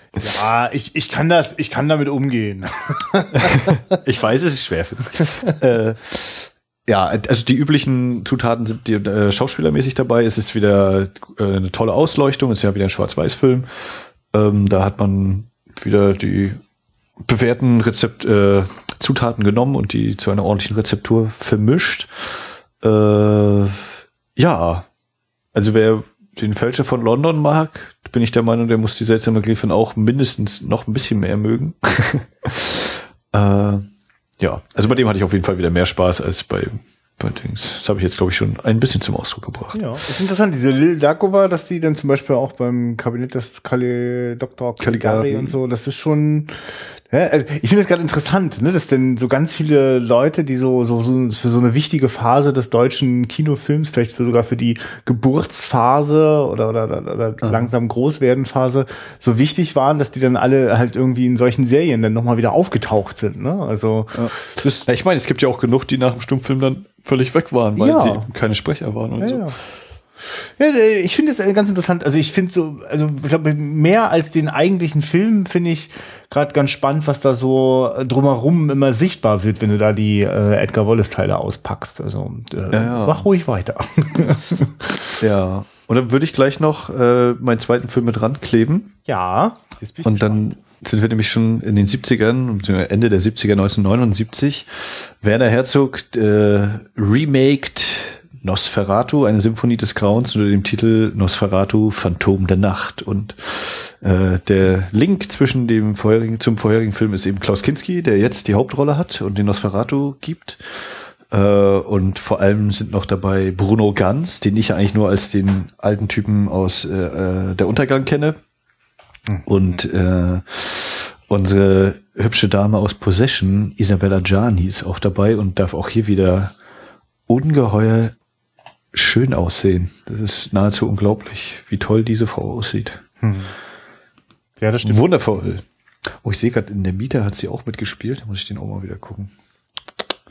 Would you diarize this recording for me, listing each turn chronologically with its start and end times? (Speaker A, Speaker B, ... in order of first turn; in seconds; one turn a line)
Speaker A: 0.2-3.8
Speaker B: 3.4-13.7
Speaker B: 14.3-16.6
Speaker B: 17.2-22.1
Speaker B: 22.8-24.9
Speaker B: 25.5-33.9
Speaker B: 34.4-39.8
Speaker A: 39.7-46.5
Speaker B: 44.8-45.6
Speaker A: 47.1-64.8
Speaker B: 57.4-57.7
Speaker B: 64.2-69.6
Speaker A: 67.8-68.3
Speaker A: 69.2-69.5
Speaker A: 70.2-85.1
Speaker B: 82.7-83.2
Speaker B: 85.2-88.9
Speaker A: 89.1-90.5
Speaker B: 90.0-110.6
Speaker B: 111.3-118.4
Speaker A: 119.3-119.8
Speaker B: 119.5-126.5
Speaker B: 127.3-128.1
Speaker B: 128.9-133.0
Speaker A: 133.2-133.5
Speaker A: 134.6-135.2
Speaker B: 134.8-135.7
Speaker B: 136.2-139.3